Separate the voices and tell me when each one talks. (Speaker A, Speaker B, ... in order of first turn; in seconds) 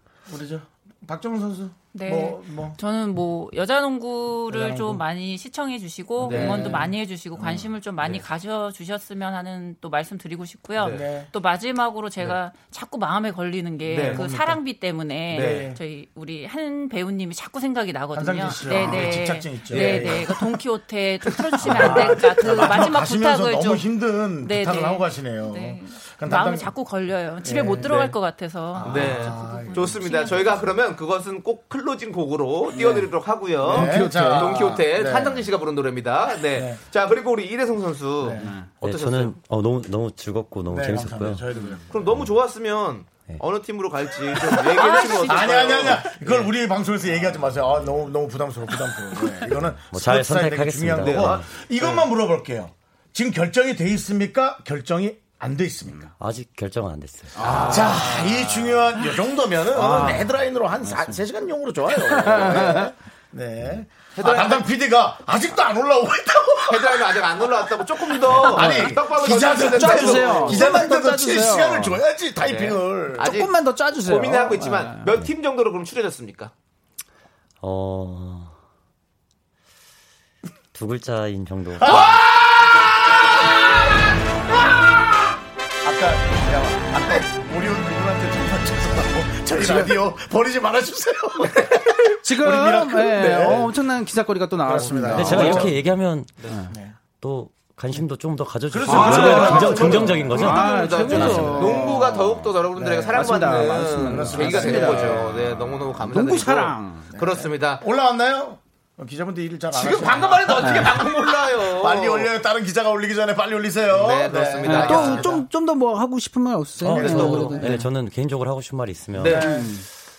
Speaker A: 0.3-2.8, 4.5-5.0, 6.2-7.7, 10.8-11.3, 14.1-14.6, 15.3-15.8, 18.1-20.5, 21.6-26.7, 27.4-28.2, 28.7-30.3, 33.7-35.5, 36.5-36.8, 38.2-38.5, 40.7-42.1, 44.3-56.1, 57.6-73.3, 81.8-82.2, 85.8-93.8, 94.6-95.8, 96.7-97.0, 98.7-100.5, 101.2-102.0, 102.7-105.5, 107.1-115.5, 116.8-117.8, 119.2-119.8
Speaker B: 1.9-30.8, 44.7-45.8
Speaker C: 6.2-6.8, 10.8-11.1, 13.9-14.3, 15.3-15.7, 19.7-20.2, 21.7-22.0, 28.8-39.4, 41.9-46.5, 51.0-52.1, 57.4-58.5, 64.2-64.7, 66.7-70.9, 72.4-76.5, 81.8-84.2, 91.5-92.2, 95.3-95.7, 96.4-96.6, 98.9-107.8, 109.7-112.3, 113.9-115.5, 117.0-117.7, 119.2-119.7
Speaker D: 32.7-33.1, 33.6-35.3, 38.4-38.7, 41.5-41.8, 57.4-58.4, 59.7-61.2, 61.9-62.9, 68.3-72.0, 73.2-75.2, 89.6-89.9, 92.2-95.7, 98.9-102.5, 103.1-107.1, 110.6-111.0, 114.6-117.8, 119.3-119.9
Speaker E: 38.8-41.5, 49.9-51.5, 56.2-57.4, 77.6-78.6, 80.7-82.1, 95.2-96.5, 97.2-101.8, 116.8-119.5